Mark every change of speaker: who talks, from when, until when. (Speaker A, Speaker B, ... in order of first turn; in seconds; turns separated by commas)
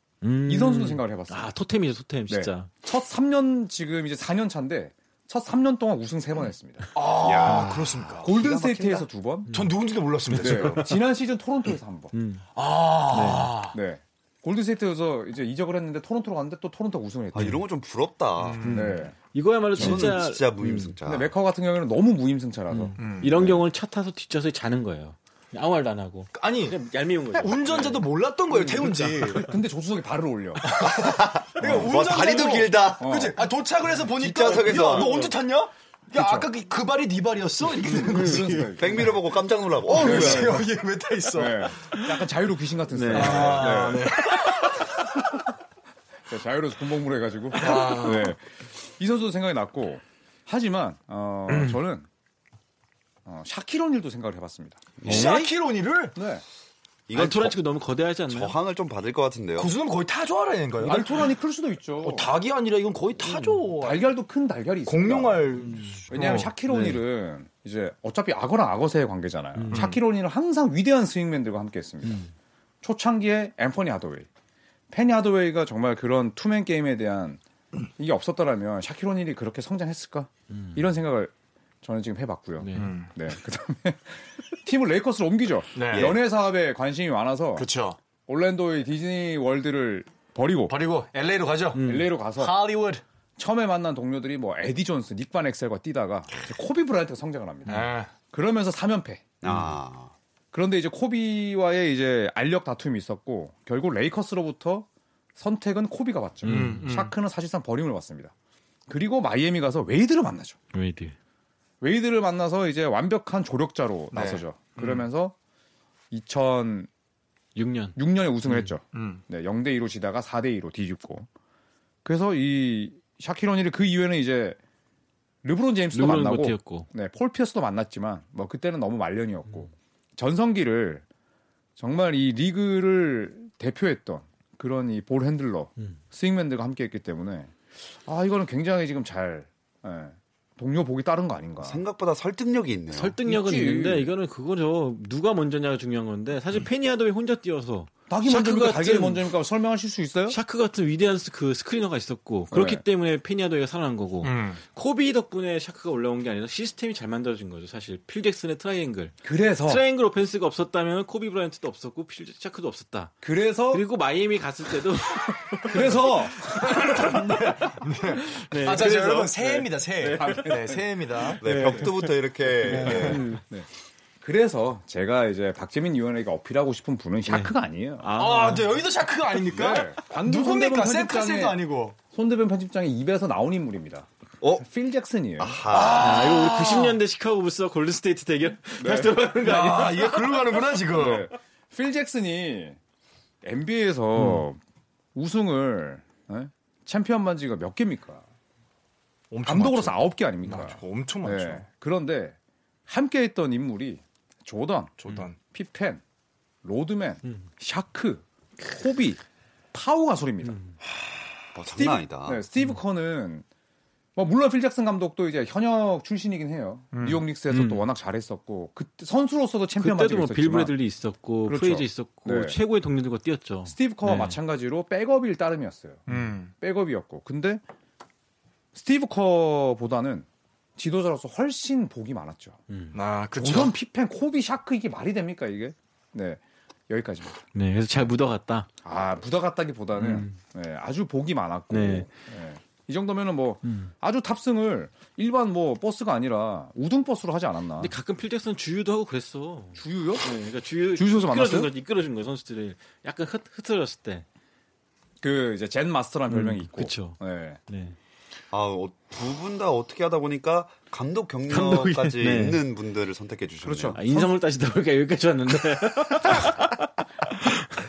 Speaker A: 0.2-2.7, Speaker B: 0.5-1.5, Speaker B: 2.3-9.5, Speaker C: 6.9-8.3, Speaker A: 7.5-7.9, Speaker D: 8.2-9.1, Speaker A: 9.5-9.7, Speaker C: 9.5-10.9, Speaker A: 10.3-11.0, Speaker B: 10.3-12.1, Speaker A: 12.1-12.4, Speaker C: 12.5-13.8, Speaker A: 13.1-13.5, Speaker B: 13.7-17.6, Speaker D: 17.3-18.7, Speaker C: 18.4-18.9, Speaker A: 18.6-20.9, Speaker B: 18.7-19.1, Speaker B: 19.7-20.2, Speaker D: 19.7-21.3, Speaker B: 21.0-23.6, Speaker A: 22.7-28.1, Speaker C: 23.0-23.4, Speaker C: 26.3-26.8, Speaker C: 27.3-29.5, Speaker B: 28.5-30.8, Speaker A: 28.7-29.5, Speaker C: 30.6-39.1, Speaker D: 30.8-33.1, Speaker B: 31.6-31.9, Speaker B: 33.0-33.4, Speaker D: 34.1-35.3, Speaker A: 34.7-35.2, Speaker B: 36.1-36.5, Speaker B: 37.7-39.1, Speaker D: 38.8-40.6, Speaker C: 39.8-42.0, Speaker B: 39.9-40.6, Speaker B: 41.3-44.1, Speaker A: 42.9-43.9, Speaker C: 43.1-45.0, Speaker B: 46.3-52.1, Speaker C: 47.5-48.3, Speaker B: 53.2-54.9, Speaker D: 55.0-55.3, Speaker C: 55.0-56.2, Speaker A: 55.0-55.5, Speaker B: 56.1-56.4, Speaker D: 57.1-57.6, Speaker A: 57.1-58.5, Speaker D: 58.3-59.7, Speaker C: 59.6-61.3, Speaker B: 60.8-62.3, Speaker C: 62.0-64.0, Speaker A: 63.2-63.5, Speaker B: 63.8-65.5, Speaker C: 64.8-66.5, Speaker A: 65.8-67.0, Speaker B: 66.1-72.3, Speaker A: 69.5-69.9, Speaker C: 69.7-70.0, Speaker B: 72.8-74.3, Speaker B: 74.9-77.4, Speaker B: 78.0-87.7, Speaker A: 80.5-80.8, Speaker A: 82.6-82.9, Speaker C: 82.7-83.1, Speaker C: 85.7-86.2, Speaker D: 85.9-86.2, Speaker C: 87.5-88.0, Speaker B: 88.3-90.8, Speaker C: 90.7-93.0, Speaker A: 91.7-92.1, Speaker B: 91.8-92.6, Speaker B: 93.4-99.4, Speaker C: 97.7-98.1, Speaker D: 99.4-100.1, Speaker B: 100.5-108.3, Speaker A: 106.4-106.9, Speaker C: 106.4-107.1, Speaker B: 108.9-110.6, Speaker A: 110.7-111.1, Speaker B: 111.8-115.3, Speaker C: 114.1-115.0, Speaker B: 116.1-116.9, Speaker A: 117.5-118.7, Speaker B: 118.0-121.3, Speaker C: 118.9-119.2, Speaker B: 122.0-124.6, Speaker B: 125.4-131.0, Speaker A: 125.9-126.9, Speaker B: 131.8-141.8, Speaker D: 141.6-143.2, Speaker A: 142.9-149.3, Speaker B: 143.2-144.1, Speaker B: 148.1-150.4, Speaker A: 150.3-163.2, Speaker B: 152.5-152.8, Speaker C: 154.2-154.6, Speaker B: 159.2-159.8, Speaker B: 163.2-163.8, Speaker A: 163.7-170.6, Speaker B: 165.4-167.1, Speaker C: 166.5-171.4, Speaker B: 170.2-170.8, Speaker A: 171.2-173.4, Speaker D: 171.4-173.2, Speaker C: 172.6-173.2, Speaker B: 172.7-173.7, Speaker B: 174.2-178.1, Speaker A: 177.3-178.8, Speaker C: 178.2-182.0, Speaker B: 179.4-181.6, Speaker B: 182.1-185.6, Speaker D: 185.4-186.3, Speaker C: 185.7-187.0, Speaker A: 186.0-190.3, Speaker B: 188.8-189.2, Speaker C: 189.4-191.3, Speaker B: 190.9-192.8, Speaker B: 193.4-194.6, Speaker A: 194.2-194.4, Speaker B: 195.1-198.2, Speaker C: 199.3-201.6, Speaker B: 199.4-202.3, Speaker B: 202.9-206.0, Speaker C: 205.0-205.4, Speaker B: 206.6-209.2, Speaker B: 209.7-210.6, Speaker A: 210.4-210.7, Speaker C: 210.8-211.3, Speaker D: 211.5-212.4, Speaker B: 211.7-213.4, Speaker B: 214.2-220.7, Speaker C: 216.9-217.2, Speaker A: 217.5-217.8, Speaker A: 219.8-224.4, Speaker B: 221.4-222.6, Speaker B: 223.7-227.6, Speaker C: 226.1-226.5, Speaker B: 228.7-230.2, Speaker B: 230.8-232.6, Speaker A: 232.7-233.0, Speaker C: 232.9-233.8, Speaker B: 233.3-237.4, Speaker A: 237.5-238.7, Speaker B: 238.8-247.9, Speaker A: 239.9-240.4, Speaker A: 241.7-242.1, Speaker A: 243.7-243.9, Speaker A: 247.8-254.2, Speaker B: 249.8-250.3, Speaker B: 250.9-251.7, Speaker B: 255.2-257.6, Speaker A: 256.3-257.9, Speaker D: 258.5-264.0, Speaker A: 261.5-262.6, Speaker B: 263.6-264.3, Speaker A: 263.9-267.6